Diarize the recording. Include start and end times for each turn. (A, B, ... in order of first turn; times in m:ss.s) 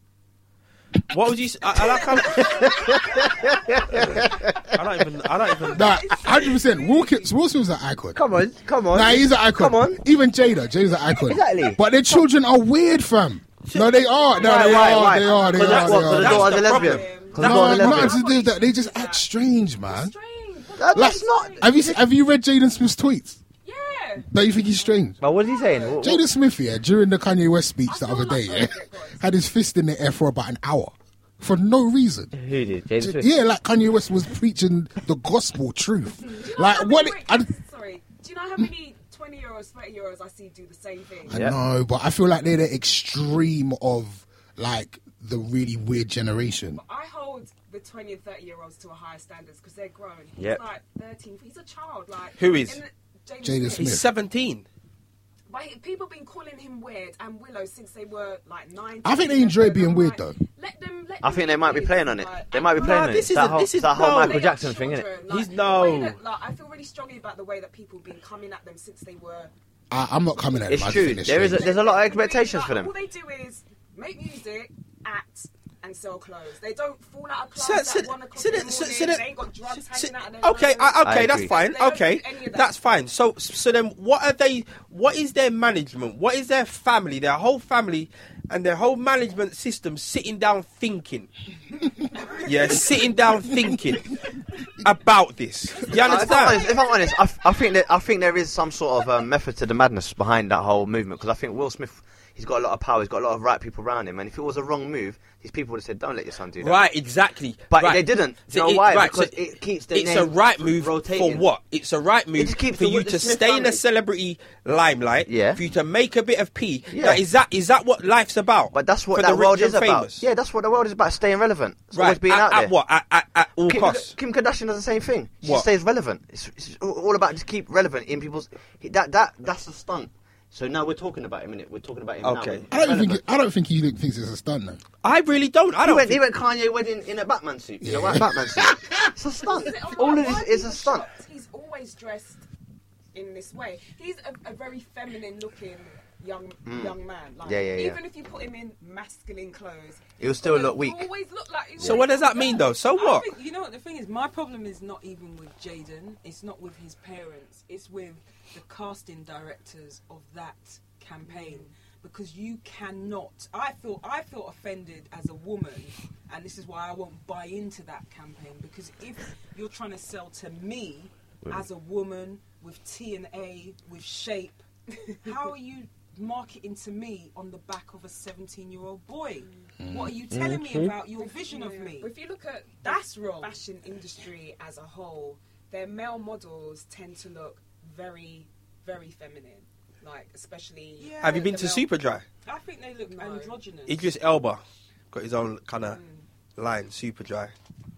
0:01.1-0:02.8 A
0:01.8-0:04.8 B
0:04.0-0:06.1 A
0:05.7-0:08.2 C
0:05.8-0:07.2 D
0:08.1-0:10.0 B
0:08.9-0:16.6 C
0:11.3-0:11.8 B
0:13.7-0:18.1 A
0:14.2-0:19.3 D
0:14.4-0:18.2 B
0:17.4-0:20.1 C
0:19.8-0:21.7 D
0:20.8-0:22.0 B
0:20.9-0:23.4 C
0:23.6-0:24.3 D
0:24.3-0:25.2 C
0:25.2-0:26.2 B
0:25.2-0:26.0 D
0:26.0-0:32.3 C
0:27.9-0:29.2 D
0:32.3-0:33.3 B
0:33.0-0:37.5 C
0:36.2-0:41.5 D
0:41.3-0:46.8 C
0:41.3-0:41.6 B
0:46.8-0:54.0 D
0:52.4-0:52.8 A
0:53.4-0:54.1 C
0:53.8-0:54.6 A
0:55.5-1:09.5 D
0:59.0-1:00.4 C
1:01.2-1:05.1 B
1:02.7-1:04.4 A
1:05.3-1:06.2 A
1:09.9-1:11.7 C
1:10.7-1:12.9 B
1:11.3-1:22.7 D
1:17.6-1:31.3 A
1:21.0-1:21.6 B
1:32.4-1:34.1 A
1:34.8-1:36.6 A
1:36.0-1:46.8 B
1:36.0-1:37.0 D
1:46.6-1:49.4 A
1:47.7-1:51.4 B
1:49.9-2:00.2 A
1:52.4-1:53.8 B
1:55.3-1:55.6 B
1:56.9-1:57.2 B
1:58.7-2:02.7 B
2:01.9-2:04.1 A
2:03.6-2:13.2 B
2:12.2-2:12.6 A
2:12.7-2:14.8 C
2:15.0-2:16.2 A
2:15.8-2:21.1 B
2:17.8-2:19.0 C
2:19.4-2:22.4 D
2:23.1-2:32.7 D
2:26.6-2:28.0 B
2:30.2-2:31.1 B
2:31.8-2:32.0 B
2:31.8-2:33.3 A
2:32.3-3:02.1 E
2:41.2-2:41.7 D
2:59.8-3:00.4 C
3:00.3-3:00.9 B
3:01.1-3:11.4 D
3:02.8-3:03.6 E
3:11.0-3:11.8 E
3:11.2-3:12.2 A
3:12.4-3:14.1 E
3:13.0-3:13.6 D
3:13.9-3:16.0 A
3:15.9-3:16.2 D
3:16.6-3:17.5 A